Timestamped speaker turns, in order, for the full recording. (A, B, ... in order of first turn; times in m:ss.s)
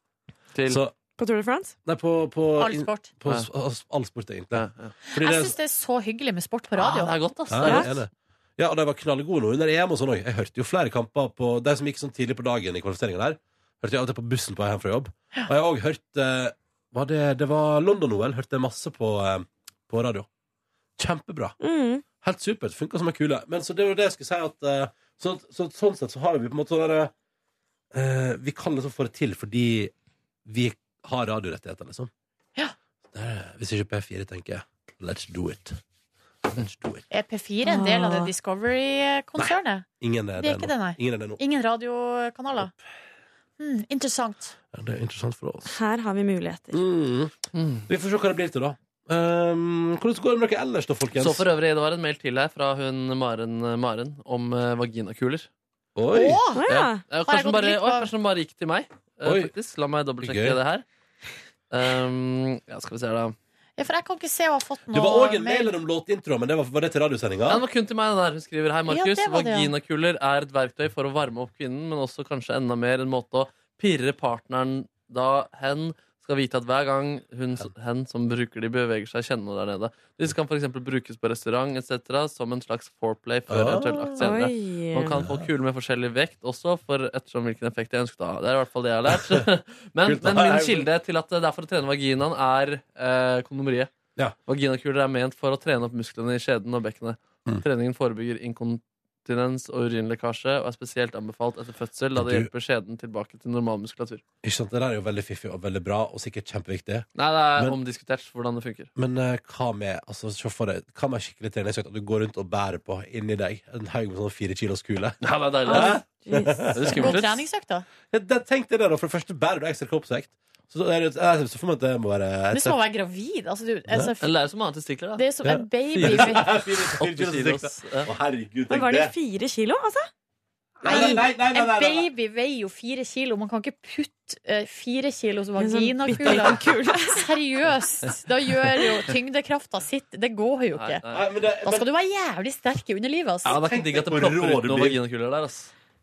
0:00.5-0:00.8 A
0:00.7-0:00.9 B
0:01.2-0:01.8 C
0:01.8-0:05.6 B
0:02.6-0:03.1 D
0:04.5-0:04.9 A
0:05.1-0:07.1 D
0:06.8-0:07.9 A
0:07.5-0:20.3 B
0:07.6-0:07.9 C
0:21.0-0:21.6 B
0:21.6-0:22.0 C
0:22.2-0:27.1 B
0:27.9-0:29.9 B
0:30.4-0:32.1 B
0:33.1-0:35.8 B
0:36.5-0:37.0 B
0:37.1-0:39.8 D
0:37.6-0:38.3 C
0:39.4-0:41.4 B
0:40.4-0:42.7 D
0:43.6-0:44.6 D
0:44.7-0:45.7 B
0:45.6-0:46.8 C
0:46.7-0:47.4 B
0:47.5-0:47.8 A
0:47.9-0:51.4 B
0:51.2-0:55.5 A
0:56.0-0:56.4 B
0:56.1-0:56.6 D
0:56.5-0:57.0 C
0:56.7-1:00.8 A
0:57.2-0:58.1 D
0:59.2-0:59.5 B
1:00.2-1:00.6 B
1:01.7-1:03.4 A
1:03.8-1:05.7 D
1:04.9-1:07.6 B
1:07.5-1:33.9 A
1:08.9-1:09.7 D
1:23.5-1:24.3 B
1:24.2-1:25.2 C
1:25.2-1:25.5 B
1:29.2-1:29.4 B
1:30.0-1:30.9 B
1:34.5-1:44.2 A
1:42.2-1:42.5 B
1:44.4-1:47.8 B
1:47.2-1:48.9 A
1:49.0-1:57.0 B
1:55.2-1:56.0 A
1:55.6-1:57.0 C
1:56.8-1:57.4 A
1:56.9-1:57.9 D
1:58.1-2:02.8 B
2:02.5-2:04.4 D
2:04.2-2:05.2 A
2:05.2-2:06.5 D
2:05.4-2:09.1 B
2:06.0-2:06.4 A
2:07.0-2:08.1 A
2:08.7-2:10.1 C
2:10.8-2:12.1 B
2:10.8-2:21.0 D
2:10.9-2:11.2 C
2:15.6-2:17.3 C
2:20.7-2:21.2 A
2:21.1-2:21.9 B
2:21.6-2:23.5 D
2:23.4-2:25.0 B
2:23.4-2:25.7 A